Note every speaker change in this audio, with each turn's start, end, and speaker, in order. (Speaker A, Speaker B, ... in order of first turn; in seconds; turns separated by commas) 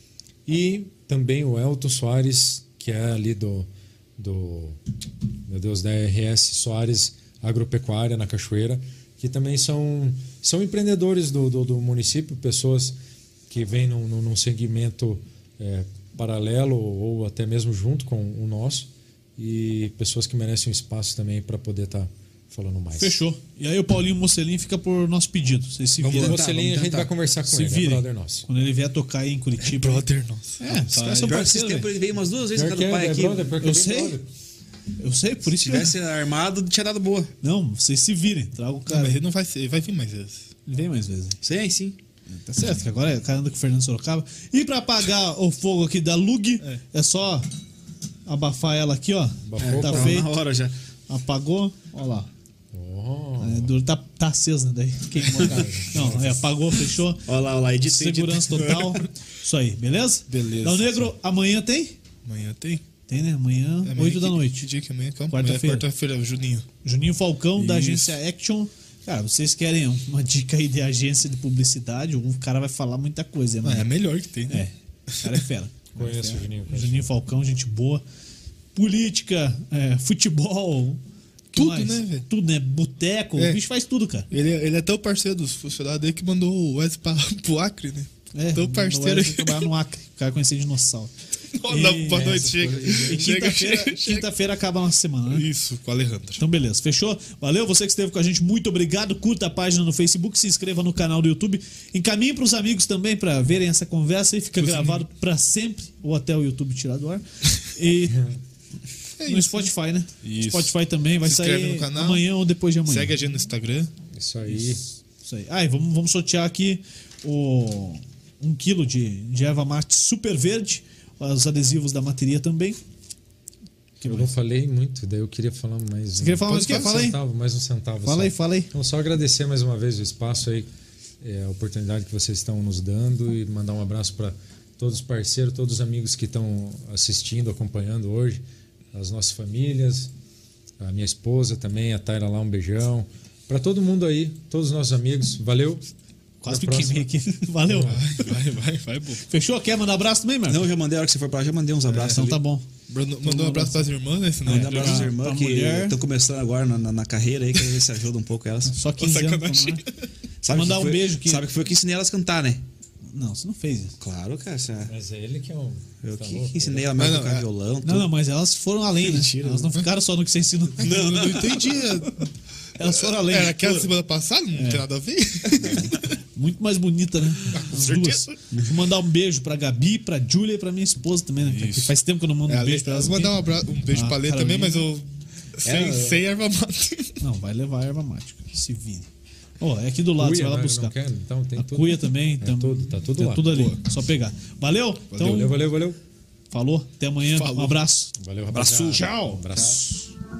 Speaker A: 0.5-4.8, Speaker A: 5.5-13.0, Speaker A: 13.5-23.2, Speaker B: 22.9-26.4, Speaker A: 26.0-28.5, Speaker C: 26.1-27.1, Speaker B: 27.4-30.0, Speaker D: 29.6-31.4, Speaker B: 30.6-31.9, Speaker C: 31.0-33.5, Speaker A: 32.5-34.3, Speaker B: 33.6-34.2, Speaker B: 35.0-35.9, Speaker C: 35.5-37.3, Speaker B: 37.4-39.2, Speaker D: 38.9-40.4, Speaker B: 40.7-41.4, Speaker C: 41.4-42.0, Speaker B: 42.3-47.5, Speaker B: 48.2-50.3, Speaker A: 49.4-50.2, Speaker C: 49.6-50.7, Speaker B: 51.1-52.3, Speaker A: 52.7-53.7, Speaker B: 53.4-57.3, Speaker A: 55.4-56.3, Speaker C: 57.2-59.0, Speaker B: 57.8-62.0, Speaker D: 60.3-61.1, Speaker D: 62.2-62.8, Speaker B: 63.1-64.7, Speaker D: 63.8-66.7, Speaker B: 65.3-65.8, Speaker B: 66.8-73.9, Speaker D: 67.5-68.2, Speaker D: 73.6-74.6, Speaker B: 74.5-78.0, Speaker A: 76.0-77.1, Speaker B: 78.7-81.0, Speaker D: 81.5-82.3, Speaker B: 81.5-84.3, Speaker D: 84.3-89.7, Speaker B: 88.3-91.1, Speaker D: 91.5-94.3, Speaker B: 91.6-95.5, Speaker A: 92.1-93.3, Speaker D: 95.3-96.4, Speaker B: 96.4-108.2, Speaker D: 104.6-105.1, Speaker A: 108.1-108.4, Speaker D: 109.2-112.3, Speaker B: 109.2-113.1, Speaker D: 112.8-113.9, Speaker A: 114.1-114.8, Speaker B: 114.5-122.8, Speaker A: 124.0-130.7, Speaker B: 124.0-124.3, Speaker B: 126.2-127.2, Speaker D: 126.5-127.0, Speaker B: 128.0-128.7, Speaker A: 131.2-140.1, Speaker A: 140.8-145.8, Speaker B: 146.4-148.0, Speaker A: 146.4-147.1, Speaker A: 147.6-148.2, Speaker D: 147.8-149.2, Speaker B: 149.3-150.7, Speaker C: 150.5-152.4, Speaker B: 151.8-152.7, Speaker D: 152.9-155.1, Speaker B: 153.2-153.8, Speaker C: 154.4-158.7, Speaker B: 154.4-155.9, Speaker B: 158.7-159.8, Speaker D: 159.0-160.1, Speaker C: 160.4-162.6, Speaker B: 160.5-161.4, Speaker B: 163.1-163.9, Speaker C: 164.0-164.9, Speaker A: 164.8-167.0, Speaker C: 166.0-168.1, Speaker D: 166.9-167.4, Speaker B: 167.8-171.5, Speaker D: 169.0-169.9, Speaker C: 170.8-171.7, Speaker D: 170.8-172.3, Speaker B: 172.8-173.9, Speaker D: 172.8-176.1, Speaker B: 174.5-174.8, Speaker A: 175.6-175.9, Speaker B: 176.3-184.9, Speaker D: 177.5-178.3, Speaker D: 181.4-181.9, Speaker D: 182.4-187.2, Speaker C: 185.6-186.2, Speaker B: 187.2-189.1, Speaker B: 189.6-190.9, Speaker A: 190.2-193.5, Speaker B: 191.6-195.6, Speaker D: 193.4-193.8, Speaker D: 195.1-195.5, Speaker A: 195.2-196.0, Speaker B: 196.5-198.1, Speaker D: 197.2-197.8, Speaker A: 198.2-199.8, Speaker C: 198.5-199.1, Speaker B: 198.9-200.1